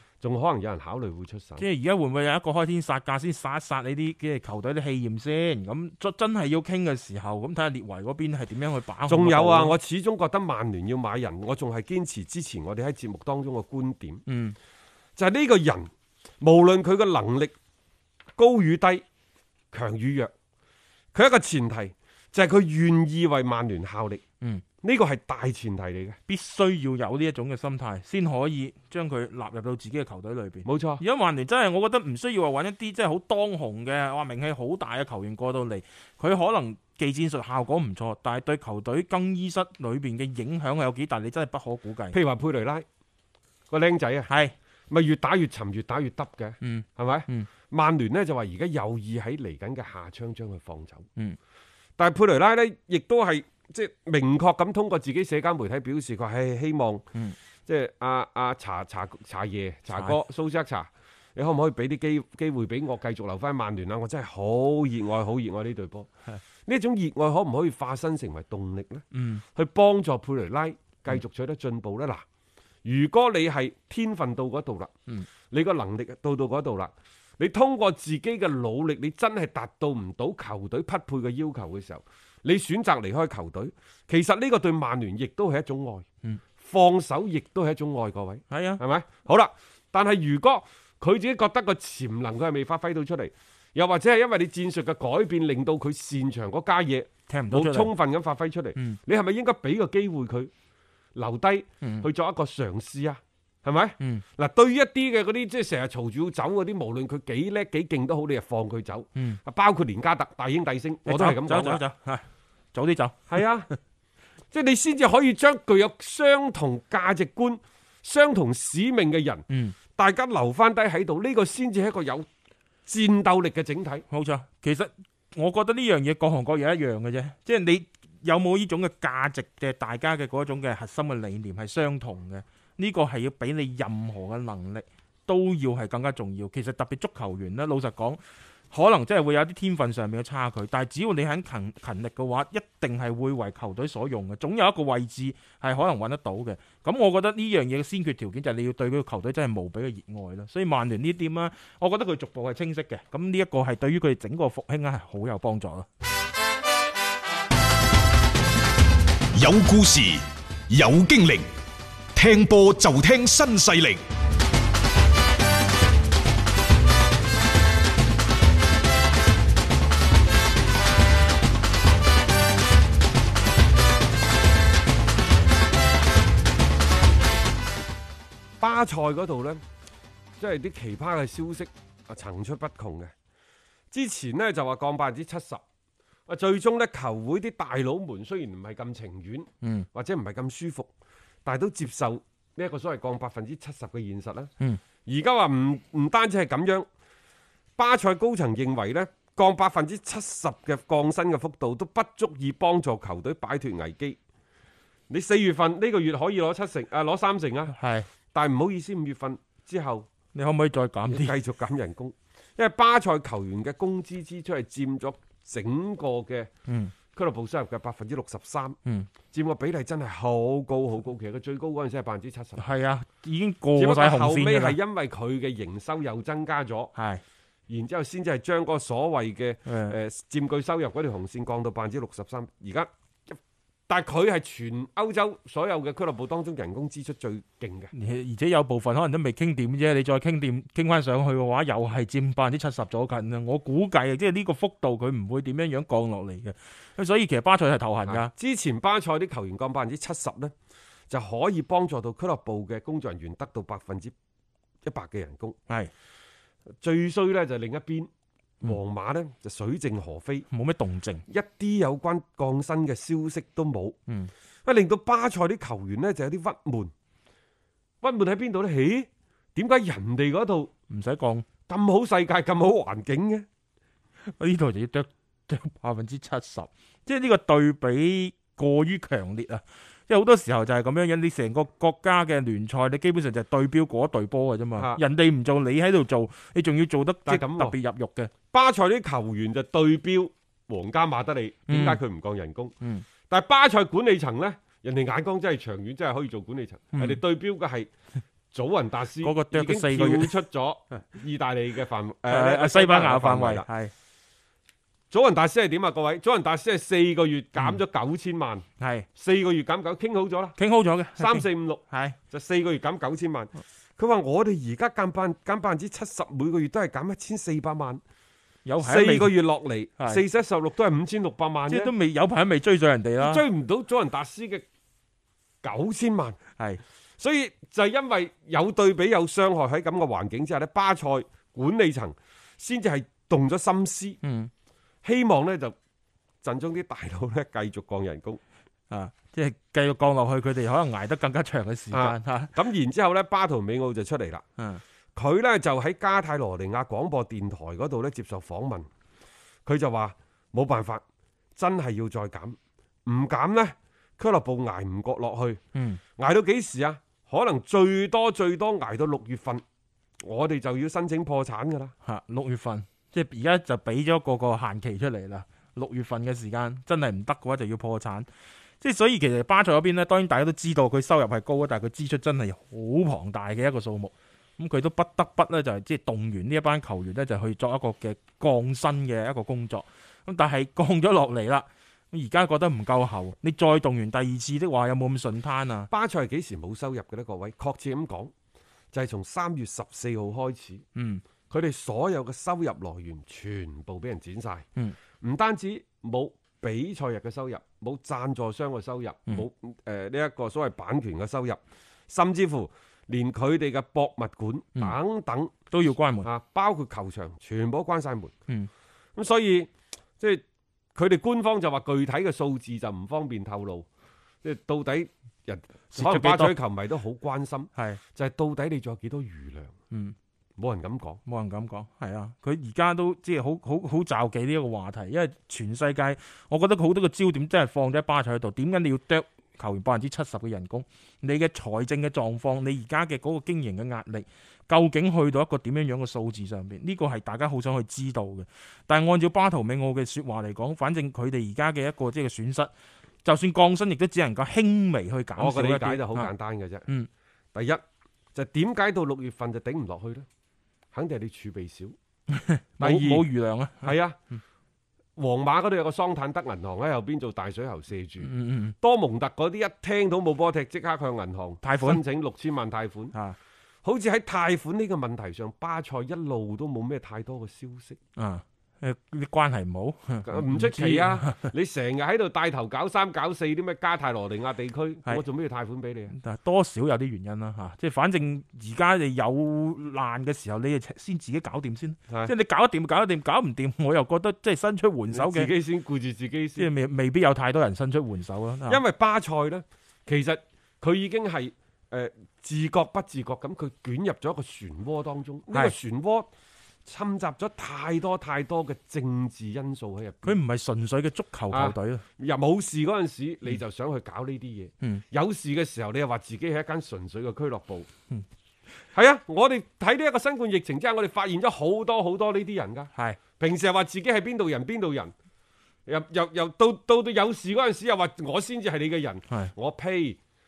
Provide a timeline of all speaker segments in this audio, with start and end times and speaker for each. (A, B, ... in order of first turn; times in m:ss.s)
0:00.2-0:01.6 A
0:01.6-0:09.8 B
0:09.1-0:14.2 A
0:14.3-0:14.6 B
0:15.2-0:17.6 A
0:18.4-0:19.0 A
0:19.7-0:20.3 A
0:21.1-0:24.2 A
0:24.8-0:26.2 A
0:26.3-0:42.2 B
0:30.6-0:31.0 A
0:42.1-0:42.9 A
0:43.7-0:44.3 A
0:44.3-0:44.5 B
0:44.9-0:51.1 A
0:46.6-0:47.5 B
0:52.0-0:57.1 A
0:57.7-1:06.1 A
1:06.7-1:12.2 A
1:09.1-1:09.4 B
1:12.8-1:14.9 A
1:15.5-1:26.1 A
1:26.6-1:40.5 A
1:28.5-1:28.8 B
1:37.3-1:37.9 B
1:41.2-1:51.8 A
1:41.8-1:42.1 B
1:51.1-1:53.7 B
1:53.3-1:53.7 A
1:54.5-2:02.3 A
1:59.5-1:59.8 B
2:02.9-2:04.0 A
2:04.1-2:35.9 B
2:39.4-2:41.5 C
2:42.1-2:44.0 C
2:58.6-2:59.6 A
3:00.4-3:03.1 A
3:03.9-3:05.6 A
3:06.3-3:10.9 A
3:09.6-3:09.9 B
3:11.4-3:14.5 A
3:15.0-3:16.9 A
3:17.8-3:24.2 A
3:25.1-3:27.8 A
3:27.7-3:28.1 B
3:28.3-3:30.1 A
3:30.3-3:31.3 B
3:31.1-3:36.5 A
3:36.7-3:36.9 B
3:37.1-3:38.8 A
3:39.3-3:42.6 A
3:42.6-3:44.8 B
3:43.8-3:46.9 A
3:47.0-3:47.2 B
3:47.7-3:57.9 A
3:49.7-3:50.0 B
3:57.9-4:08.3 B
4:08.1-4:10.5 A
4:11.1-4:14.1 A
4:14.8-4:15.6 A
4:16.8-4:18.1 A
4:18.6-4:20.5 A
4:20.5-4:21.2 B
4:21.3-4:24.0 A
4:24.6-4:26.9 A
4:28.0-4:30.7 A
4:30.9-4:31.5 B
4:31.7-4:33.5 A
4:34.2-4:48.3 B
4:44.8-4:45.0 A
4:47.3-4:47.8 A
4:48.5-4:52.7 A
4:51.7-4:52.0 B
4:52.8-4:53.1 B
4:53.3-4:57.9 A
4:56.9-4:57.2 B
4:58.5-5:03.7 A
4:59.2-5:00.4 B
5:02.3-5:03.9 B
5:05.1-5:10.6 A
5:08.8-5:09.1 B
5:10.6-5:12.2 B
5:11.2-5:18.0 A
5:18.7-5:19.4 B
5:18.8-5:21.9 A
5:21.7-5:23.4 B
5:23.2-5:24.7 A
5:25.6-5:26.4 A
5:27.2-5:34.2 A
5:34.2-5:34.5 B
5:35.0-5:35.8 A
5:36.4-5:38.4 A
5:38.9-5:42.6 B
5:41.9-5:44.4 A
5:44.6-5:44.8 B
5:45.2-5:48.9 A
5:49.7-5:51.0 A
5:51.6-5:55.6 A
5:55.8-5:56.0 B
5:56.2-5:59.6 A
6:00.2-6:01.9 A
6:02.0-6:08.3 B
6:08.8-6:25.9 B
6:25.9-6:28.3 A
6:28.9-6:30.8 A
6:31.0-6:31.2 B
6:31.5-6:34.7 A
6:35.2-6:45.5 A
6:45.7-6:46.3 B
6:46.2-6:48.3 A
6:49.2-6:50.4 A
6:51.0-6:53.9 A
6:54.4-6:59.8 A
6:55.9-6:56.6 B
6:59.9-7:00.2 B
7:00.6-7:01.2 A
7:01.3-7:22.7 B
7:23.2-7:26.3 B
7:25.4-7:26.9 A
7:27.5-7:27.8 A
7:28.4-7:30.3 A
7:30.9-7:32.0 A
7:32.3-7:34.0 B
7:32.8-7:33.3 A
7:33.8-7:34.2 A
7:35.2-7:38.3 A
7:38.2-7:38.8 B
7:38.8-7:43.2 A
7:41.6-7:42.0 B
7:43.8-7:48.0 A
7:48.2-7:51.5 B
7:50.3-7:56.1 A
7:56.1-8:05.5 B
8:05.1-8:06.7 A
8:06.6-8:08.8 B
8:08.7-8:16.3 A
8:16.8-8:20.4 A
8:20.2-8:22.0 B
8:21.5-8:27.9 A
8:28.9-8:35.1 A
8:35.9-8:40.2 A